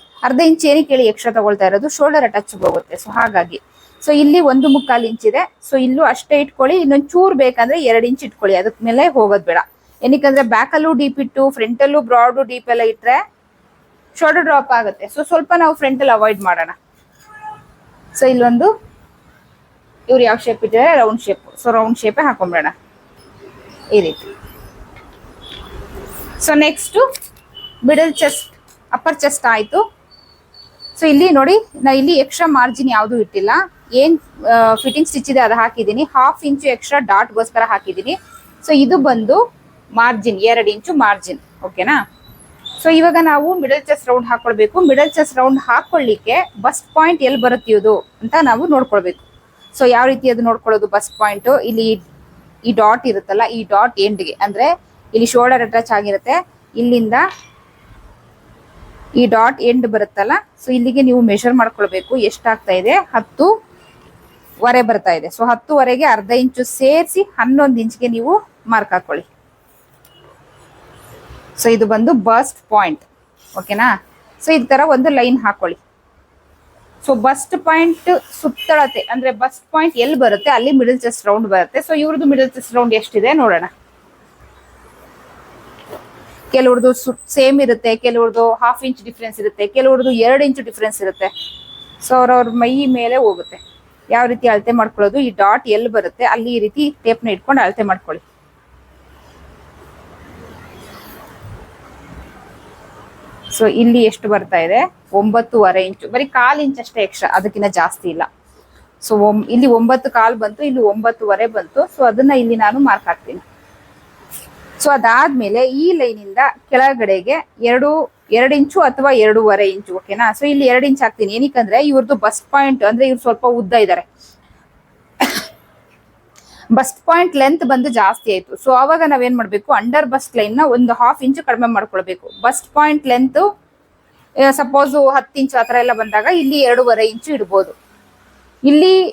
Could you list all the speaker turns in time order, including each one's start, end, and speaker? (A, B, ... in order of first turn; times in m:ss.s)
0:00.2-0:13.2 A
0:14.2-0:16.8 A
0:18.1-0:18.7 A
0:20.1-0:22.7 A
0:23.9-0:24.3 A
0:26.4-0:27.0 A
0:27.8-0:29.8 A
0:31.0-0:39.4 A
0:40.0-0:42.0 A
0:42.8-0:49.2 A
0:49.7-0:52.0 A
0:52.7-0:57.2 A
0:59.2-1:03.5 A
1:04.6-1:09.3 A
1:11.6-1:13.0 A
1:13.6-1:13.9 A
1:14.4-1:15.8 A
1:17.0-1:23.7 A
1:26.5-1:31.3 A
1:32.0-1:38.2 A
1:43.5-1:48.3 A
1:49.0-1:53.4 A
1:54.8-2:04.0 A
2:06.7-2:13.4 A
2:14.4-2:17.7 A
2:18.6-2:18.9 A